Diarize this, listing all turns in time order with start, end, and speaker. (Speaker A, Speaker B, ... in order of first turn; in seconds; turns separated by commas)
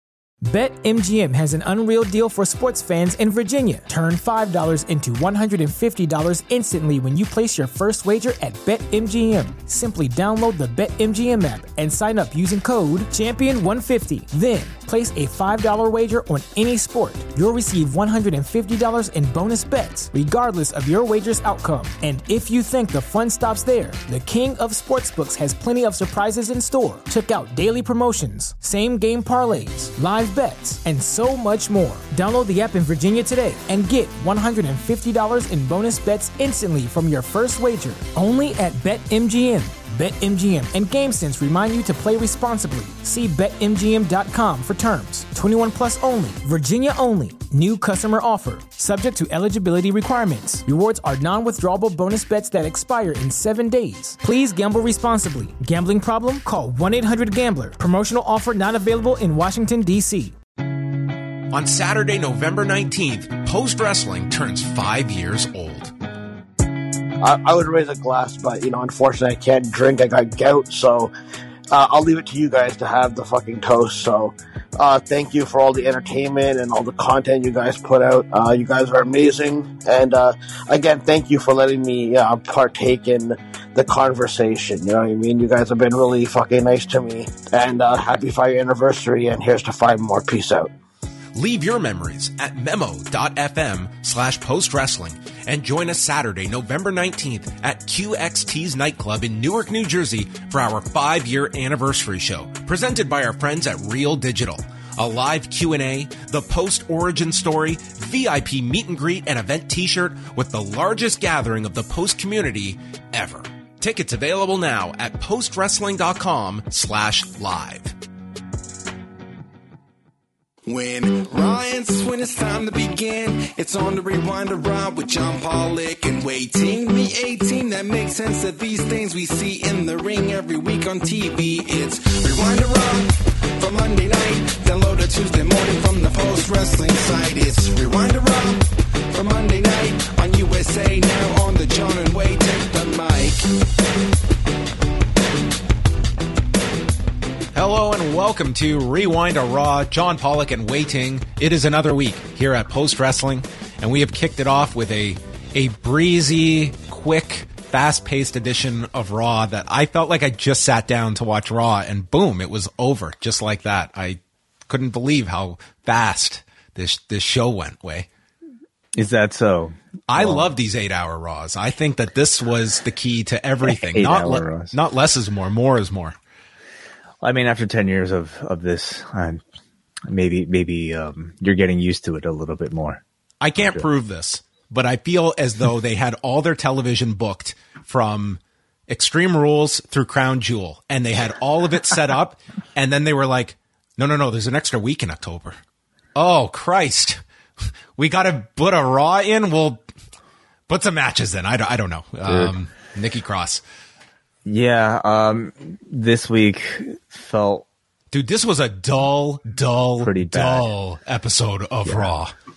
Speaker A: 0.4-60.3, Speaker B: 61.5-65.9, Speaker C: 67.2-71.1, Speaker C: 71.7-90.7, Speaker B: 91.3-118.0, Speaker D: 120.7-143.6, Speaker B: 147.5-168.1, Speaker E: 168.9-170.5, Speaker B: 170.1-176.2, Speaker E: 173.7-174.8, Speaker E: 177.2-179.4, Speaker E: 180.1-183.0, Speaker B: 183.4-195.6, Speaker B: 196.1-197.2, Speaker B: 197.9-199.8, Speaker B: 200.7-203.6, Speaker E: 204.4-207.7, Speaker B: 208.1-212.3, Speaker E: 210.0-210.7